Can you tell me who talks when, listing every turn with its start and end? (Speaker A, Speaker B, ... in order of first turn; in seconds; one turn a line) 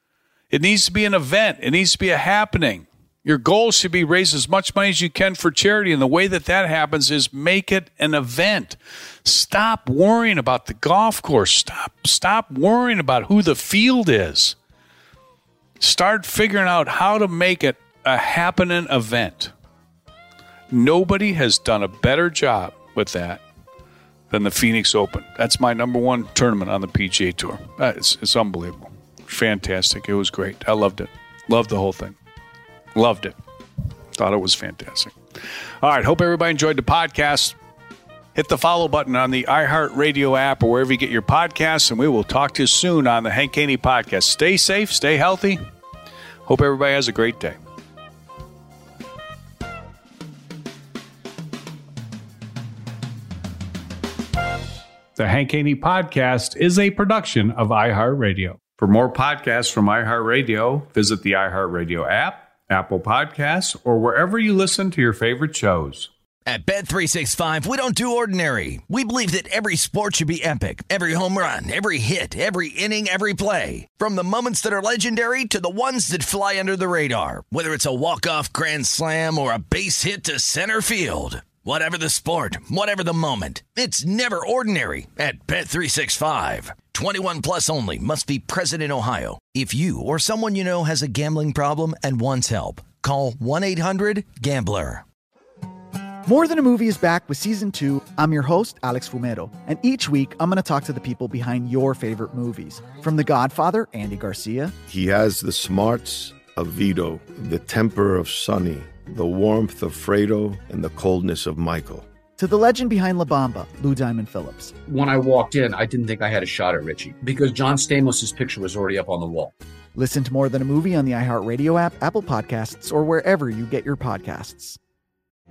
Speaker A: 0.5-14.6
Speaker A: 15.8-19.5
Speaker A: 20.7-23.4
Speaker A: 24.3-32.1
Speaker A: 32.9-33.4
Speaker A: 34.1-35.1
Speaker A: 35.8-37.6
Speaker A: 38.4-45.6
Speaker A: 46.5-47.6
Speaker A: 55.2-66.1
Speaker B: 66.5-95.0
Speaker C: 96.2-104.7
Speaker D: 104.9-112.1
Speaker C: 112.4-114.7
Speaker E: 114.9-119.5
Speaker C: 120.0-124.8